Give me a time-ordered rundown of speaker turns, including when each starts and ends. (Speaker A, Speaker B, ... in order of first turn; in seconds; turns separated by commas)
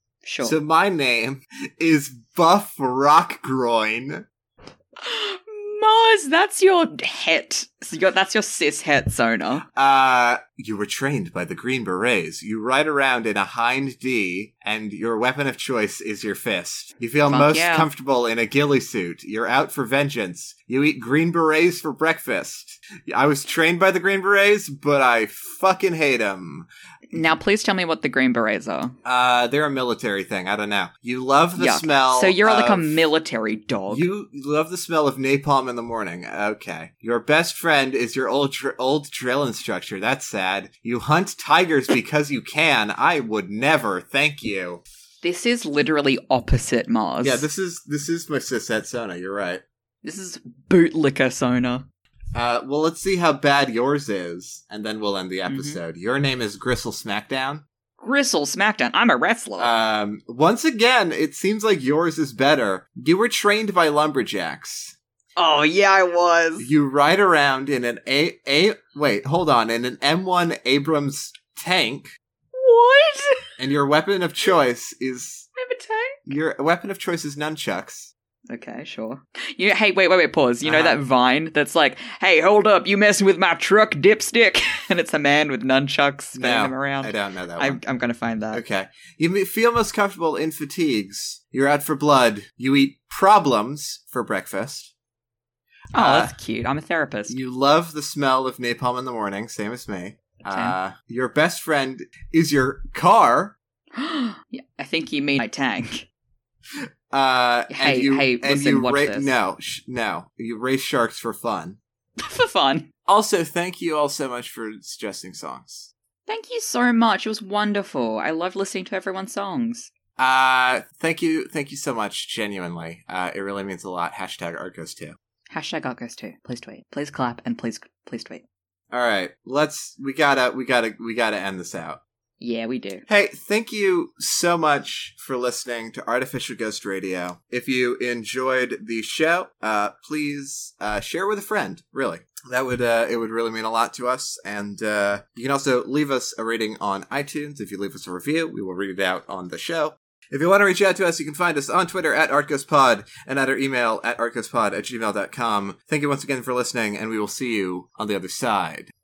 Speaker A: 0.2-0.6, Speaker B: 0.4-4.2, Speaker A: 5.0-9.6, Speaker B: 9.7-27.2, Speaker A: 17.3-17.9, Speaker A: 27.1-28.9, Speaker B: 29.0-32.9, Speaker A: 31.6-34.0, Speaker B: 33.9-44.8, Speaker A: 45.2-47.5, Speaker B: 47.2-49.6, Speaker A: 50.0-51.9, Speaker B: 52.3-57.6, Speaker A: 55.5-55.8, Speaker A: 58.0-59.7, Speaker B: 59.6-65.0, Speaker A: 65.4-66.7, Speaker B: 66.6-72.2, Speaker A: 72.5-73.4, Speaker B: 73.6-75.5, Speaker A: 75.6-76.2, Speaker B: 76.3-78.1, Speaker A: 78.5-88.6, Speaker B: 80.6-81.0, Speaker B: 86.3-87.8, Speaker B: 88.5-94.9, Speaker A: 95.9-97.4, Speaker B: 96.0-96.3, Speaker B: 97.3-103.5, Speaker A: 100.5-100.8, Speaker A: 104.0-106.1, Speaker B: 107.1-111.8, Speaker A: 107.7-109.3, Speaker A: 112.2-112.9, Speaker B: 113.1-115.9, Speaker A: 116.3-119.9, Speaker B: 120.2-125.2, Speaker A: 125.5-128.4, Speaker B: 128.9-132.0, Speaker A: 132.4-133.1, Speaker B: 133.1-158.9